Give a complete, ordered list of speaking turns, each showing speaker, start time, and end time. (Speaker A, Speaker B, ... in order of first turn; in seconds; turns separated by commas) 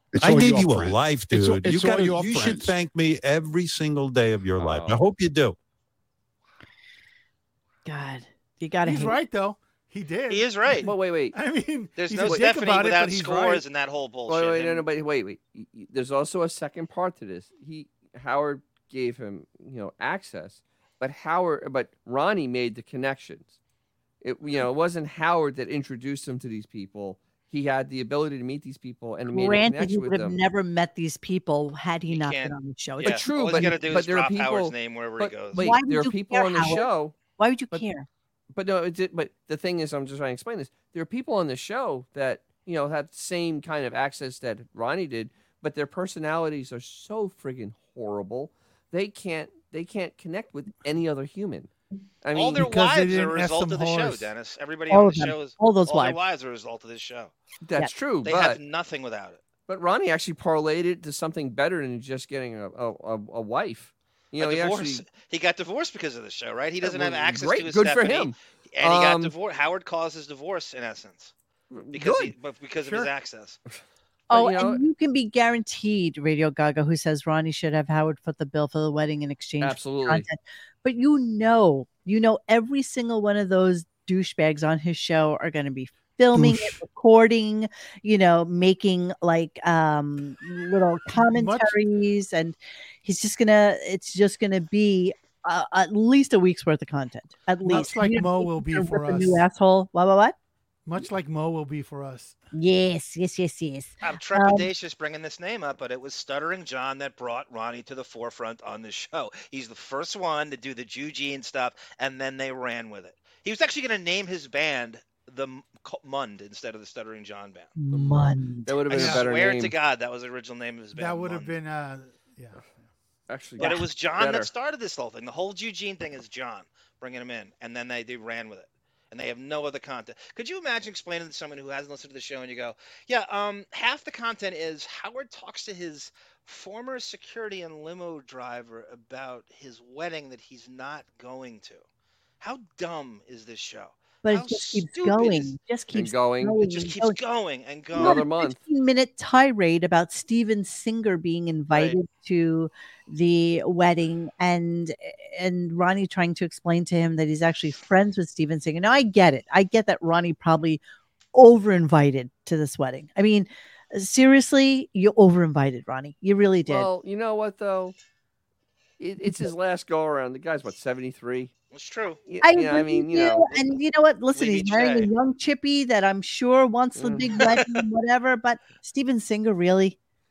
Speaker A: 0.1-2.7, Speaker B: 0.2-5.5, Speaker C: 4.6-5.0, Speaker D: 7.8-9.2, Speaker E: 8.8-13.6, Speaker F: 10.3-10.9, Speaker C: 10.8-11.3, Speaker F: 12.0-14.8, Speaker C: 14.3-23.5, Speaker C: 24.2-30.4, Speaker D: 29.3-33.3, Speaker F: 32.1-35.7, Speaker C: 33.0-37.1, Speaker D: 35.5-38.0, Speaker C: 38.5-51.7, Speaker C: 52.2-52.7, Speaker F: 52.3-57.3, Speaker E: 52.5-54.3, Speaker D: 54.9-56.2, Speaker C: 57.6-58.6, Speaker F: 58.2-59.4, Speaker C: 59.7-65.0, Speaker F: 64.4-71.3, Speaker C: 66.8-69.3, Speaker C: 71.7-72.3, Speaker F: 71.9-73.6, Speaker C: 74.3-74.8, Speaker D: 74.3-100.3, Speaker C: 79.6-80.3, Speaker E: 86.3-86.8, Speaker E: 91.1-91.7, Speaker E: 97.6-99.4, Speaker E: 100.8-102.4, Speaker D: 102.5-104.7, Speaker F: 104.0-117.7, Speaker D: 117.8-118.8, Speaker C: 117.9-119.7, Speaker F: 118.9-121.5, Speaker E: 118.9-119.2, Speaker E: 120.9-122.9, Speaker C: 123.3-124.5, Speaker F: 123.6-141.8, Speaker F: 142.4-145.5, Speaker D: 144.2-147.2, Speaker C: 145.9-146.7, Speaker F: 146.7-148.2, Speaker C: 147.9-148.6, Speaker D: 147.9-160.8, Speaker F: 151.7-152.0, Speaker D: 161.3-166.9, Speaker C: 166.7-167.9, Speaker C: 169.0-171.5, Speaker F: 171.7-172.2, Speaker C: 172.2-173.6, Speaker D: 172.4-180.0, Speaker F: 174.3-175.1, Speaker C: 176.9-177.6